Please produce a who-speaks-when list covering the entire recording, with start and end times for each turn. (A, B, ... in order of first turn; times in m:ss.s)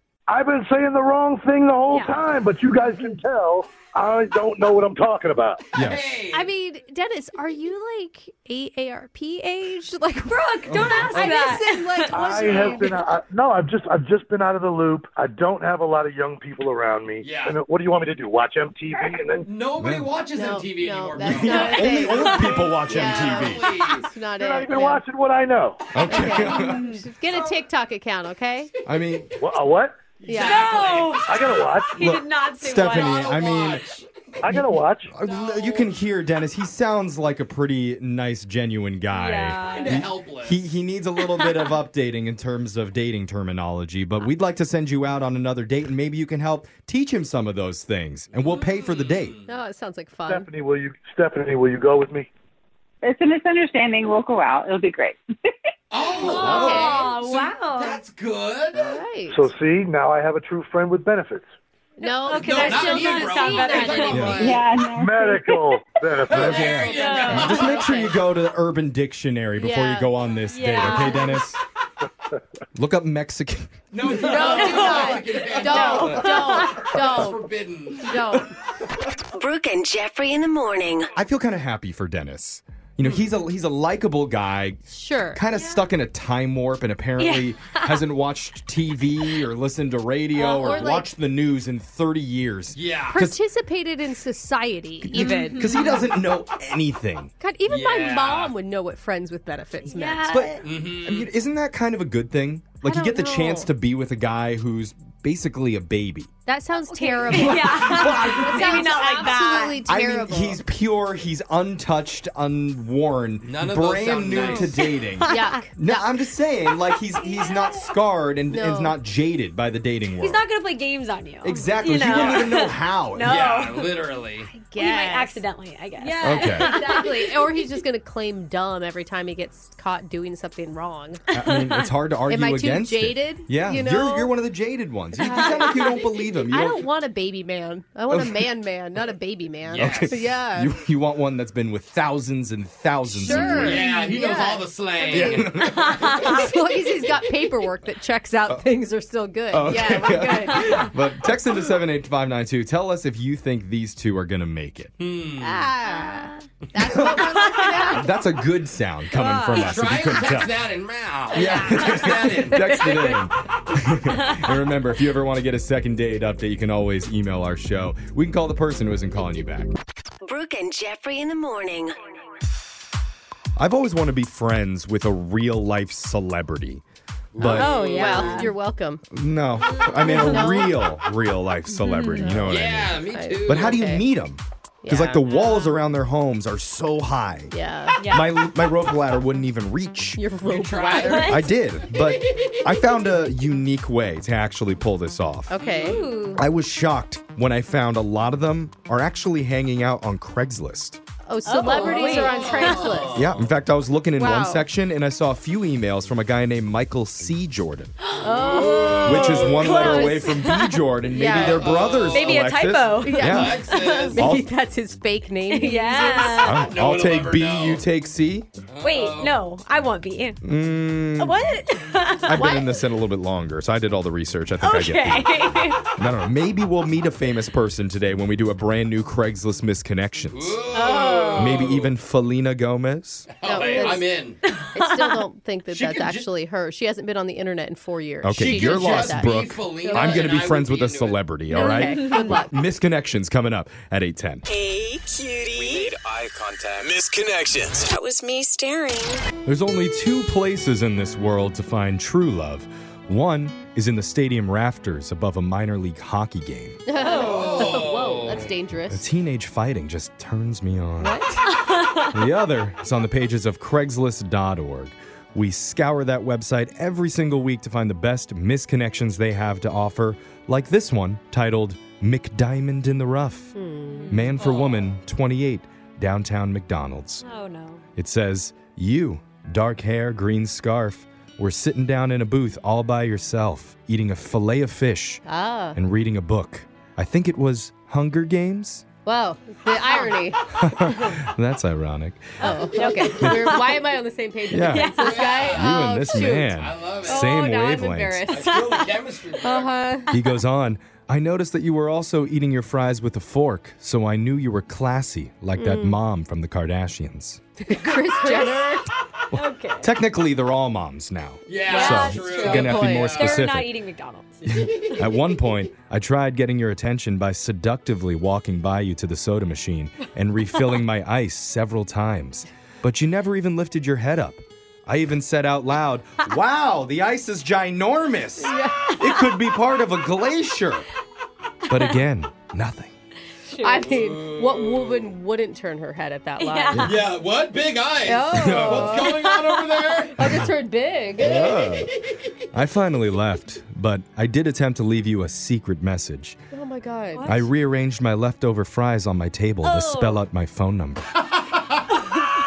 0:00.3-0:05.6 A
0:01.9-0:02.3 B
0:05.7-0:06.0 C
0:05.8-0:06.5 D
0:06.3-0:13.0 E
0:10.3-0:13.0 B
0:10.7-0:11.3 C
0:12.1-0:19.5 A
0:17.2-0:17.6 D
0:19.4-0:22.1 D
0:19.8-0:20.1 C
0:20.4-0:25.0 E
0:21.2-0:23.6 C
0:21.4-0:22.8 B
0:22.9-0:24.1 D
0:24.4-0:25.8 A
0:25.9-0:26.8 C
0:26.1-0:28.7 E
0:26.5-0:27.0 B
0:28.9-0:29.3 C
0:29.4-0:30.1 A
0:30.2-0:31.5 D
0:30.3-0:30.7 E
0:30.3-0:33.5 B
0:31.2-0:32.0 A
0:32.0-0:33.8 C
0:32.8-0:34.1 D
0:34.4-0:35.1 A
0:35.1-0:49.4 C
0:35.2-0:35.9 D
0:39.1-0:40.0 B
0:39.7-0:40.7 D
0:41.3-0:41.7 B
0:48.4-0:49.5 D
0:49.5-0:50.5 E
0:50.3-0:52.3 A
0:53.0-0:55.2 F
0:55.9-0:59.0 D
0:56.2-0:58.0 B
0:56.2-0:57.1 E
0:58.7-0:59.5 E
0:59.3-1:01.5 A
1:02.0-1:04.5 E
1:02.0-1:04.6 B
1:02.3-1:04.7 D
1:04.1-1:04.4 C
1:04.4-1:05.6 F
1:04.8-1:06.9 A
1:06.3-1:08.1 D
1:06.3-1:11.6 C
1:06.8-1:08.0 B
1:09.6-1:10.1 E
1:10.4-1:11.5 B
1:12.8-1:13.7 C
1:13.9-1:18.4 D
1:14.2-1:17.4 E
1:14.4-1:16.9 B
1:18.0-1:18.5 E
1:19.4-1:21.1 G
1:21.2-1:33.4 C
1:24.9-1:25.4 E
1:25.5-1:25.9 B
1:27.2-1:28.0 B
1:30.4-1:31.1 E
1:30.4-1:31.0 B
1:32.8-1:33.2 D
1:33.1-1:35.9 E
1:35.1-1:37.3 C
1:35.1-1:36.1 B
1:37.4-1:40.6 E
1:37.7-1:38.5 D
1:39.9-1:40.6 B
1:40.6-1:41.3 D
1:41.0-1:46.3 C
1:42.8-1:43.7 E
1:46.5-1:50.6 E
1:46.9-1:49.9 B
1:47.3-1:48.9 C
1:49.8-2:00.4 C
1:53.4-1:54.9 D
1:54.4-1:55.7 B
1:55.3-1:56.0 E
1:57.1-1:57.9 B
1:58.5-1:59.0 E
2:00.2-2:04.0 B
2:01.4-2:03.5 C
2:03.2-2:04.5 D
2:04.5-2:05.4 E
2:04.7-2:07.5 B
2:06.0-2:11.2 E
2:06.2-2:06.8 C
2:11.3-2:16.9 C
2:11.3-2:11.8 B
2:12.3-2:14.3 E
2:15.2-2:16.0 E
2:15.2-2:15.9 B
2:16.5-2:20.8 E
2:18.1-2:18.5 C
2:19.7-2:20.2 D
2:19.7-2:23.8 C
2:23.2-2:30.8 E
2:23.4-2:25.7 D
2:25.1-2:26.0 C
2:25.9-2:26.4 B
2:29.5-2:34.9 C
2:35.0-2:35.7 D
2:35.4-2:38.1 E
2:35.8-2:36.4 B
2:36.8-2:40.6 C
2:37.2-2:38.0 B
2:39.1-2:39.8 B
2:39.5-2:42.9 D
2:41.3-2:49.7 C
2:41.3-2:42.1 B
2:50.2-2:52.0 G
2:53.6-2:56.8 C
2:57.3-2:58.5 D
2:57.4-2:57.7 C
2:57.4-2:58.5 B
2:57.5-2:59.0 E
2:59.1-3:10.2 C
2:59.6-3:00.7 B
3:00.0-3:00.8 E
3:01.7-3:02.4 B
3:02.2-3:04.0 E
3:02.5-3:03.8 D
3:04.8-3:05.6 E
3:05.2-3:05.8 B
3:07.5-3:08.0 E
3:08.0-3:08.4 B
3:10.2-3:11.4 E
3:10.4-3:11.4 D
3:10.9-3:11.4 B
3:11.3-3:15.5 C
3:15.5-3:16.1 E
3:15.6-3:16.1 D
3:15.8-3:16.4 B
3:16.4-3:21.0 C
3:21.3-3:23.2 E
3:21.4-3:23.2 B
3:21.7-3:23.5 D
3:23.2-3:28.0 C
3:24.2-3:24.7 E
3:28.0-3:30.9 B
3:28.2-3:30.3 E
3:28.3-3:29.4 D
3:29.0-3:34.5 C
3:31.1-3:31.8 E
3:31.2-3:32.5 D
3:32.1-3:34.1 B
3:33.0-3:36.6 E
3:33.2-3:34.2 D
3:35.5-3:36.7 B
3:36.4-3:38.5 C
3:36.5-3:37.8 D
3:38.7-3:39.4 D
3:38.8-3:40.4 B
3:40.4-3:41.6 C
3:41.2-3:42.8 B
3:42.2-3:50.6 C
3:42.3-3:42.8 E
3:44.6-3:45.9 B
3:50.3-3:51.9 D
3:50.7-3:51.8 B
3:51.4-3:53.3 C
3:53.3-3:54.4 D
3:53.4-3:54.1 E
3:53.6-3:55.2 B
3:54.7-4:00.3 E
3:55.7-3:56.3 D
3:58.2-4:04.5 C
3:58.4-4:01.2 D
4:01.5-4:02.5 E
4:01.6-4:02.4 B
4:05.5-4:08.0 H
4:08.0-4:08.6 G
4:09.4-4:16.8 C
4:16.9-4:19.0 E
4:17.0-4:17.8 B
4:17.0-4:18.5 D
4:18.9-4:21.2 C
4:21.0-4:21.5 E
4:21.5-4:22.2 B
4:22.1-4:33.5 C
4:33.6-4:34.1 E
4:33.9-4:34.6 B
4:34.1-4:37.2 C
4:34.4-4:34.9 D
4:37.2-4:37.8 B
4:38.0-4:48.9 C
4:45.3-4:45.8 E
4:49.0-4:50.4 E
4:49.8-4:50.2 B
4:50.5-4:52.5 C
4:52.4-4:53.8 B
4:52.4-4:58.6 E
4:53.1-4:53.5 C
4:54.5-4:54.9 C
4:54.6-4:55.5 B
4:55.0-4:57.4 D
4:55.5-4:58.3 C
4:58.3-4:59.7 D
4:58.5-4:58.8 B
4:59.4-5:00.1 E
5:00.1-5:07.4 C
5:05.6-5:06.0 E
5:07.6-5:08.9 E
5:07.9-5:09.9 B
5:09.3-5:13.8 C
5:11.5-5:13.5 D
5:11.7-5:14.6 B
5:14.5-5:30.9 C
5:28.4-5:28.9 E
5:31.7-5:32.9 C
5:33.5-5:34.0 B
5:33.6-5:36.9 E
5:33.8-5:35.1 D
5:36.4-5:36.9 B
5:36.8-5:40.3 D
5:38.1-5:39.1 E
5:38.3-5:39.0 C
5:39.1-5:40.0 B
5:40.2-5:41.6 E
5:41.2-5:41.9 C
5:42.5-5:46.4 C
5:46.5-5:47.4 E
5:47.2-5:47.5 B
5:47.3-5:51.1 C
5:49.6-5:50.2 B
5:51.2-5:51.8 D